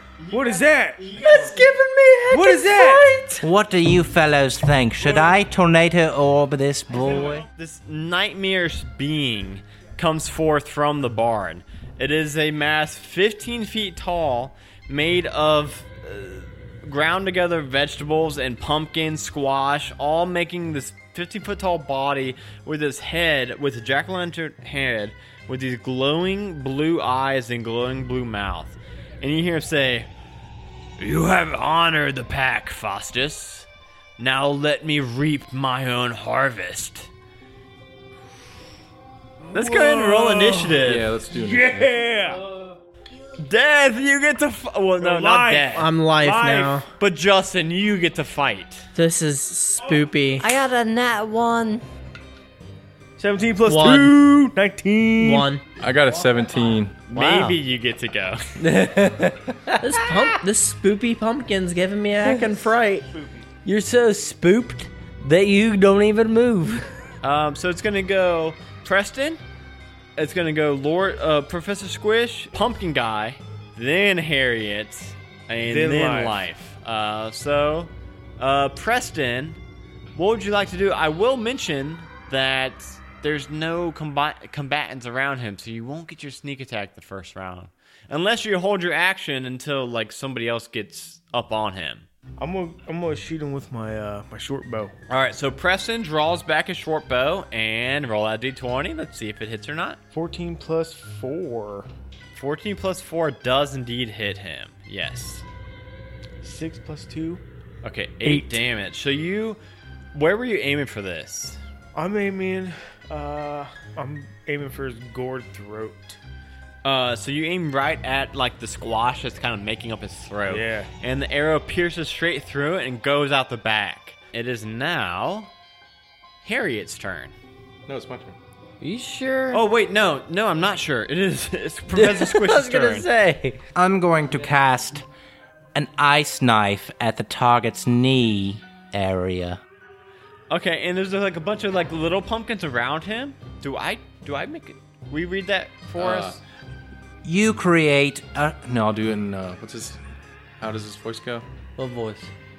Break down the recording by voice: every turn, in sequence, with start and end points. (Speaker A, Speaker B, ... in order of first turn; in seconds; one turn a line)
Speaker A: 0.2-1.7
Speaker B: 0.3-1.0
Speaker C: 1.2-3.5
Speaker B: 2.3-3.2
Speaker D: 3.4-7.5
Speaker A: 7.1-30.1
Speaker A: 31.0-33.7
Speaker A: 34.2-37.1
Speaker B: 39.5-42.5
Speaker A: 39.5-41.1
Speaker E: 40.8-42.0
Speaker A: 43.4-45.9
Speaker B: 45.0-46.9
Speaker C: 45.7-46.9
Speaker A: 47.0-48.9
Speaker C: 49.0-50.5
Speaker F: 50.4-51.9
Speaker B: 53.2-55.5
Speaker C: 53.7-54.2
Speaker C: 55.2-55.6
Speaker E: 55.8-57.0
Speaker A: 57.1-58.4
Speaker F: 57.1-57.6
Speaker F: 58.6-59.8
Speaker C: 59.8-63.1
Speaker F: 63.6-66.9
Speaker A: 67.2-69.4
Speaker A: 70.2-79.6
Speaker B: 75.7-76.4
Speaker A: 80.2-92.1
Speaker B: 92.4-94.9
Speaker A: 95.1-100.0
Speaker B: 100.1-101.9
Speaker A: 102.3-105.5
Speaker B: 106.4-107.4
Speaker A: 107.8-109.6
Speaker B: 108.2-108.6
Speaker A: 110.1-111.6
Speaker B: 112.0-116.2
Speaker A: 116.8-125.5
Speaker B: 120.5-120.9
Speaker A: 126.4-127.3
Speaker E: 127.9-128.4
Speaker F: 128.8-129.6
Speaker A: 129.5-133.1
Speaker F: 131.9-133.6
Speaker D: 133.8-135.1
Speaker D: 135.7-139.6
Speaker A: 140.5-146.4
Speaker E: 146.0-146.4
Speaker D: 147.2-149.2
Speaker E: 149.0-150.0
Speaker E: 150.6-151.4
Speaker F: 151.8-152.3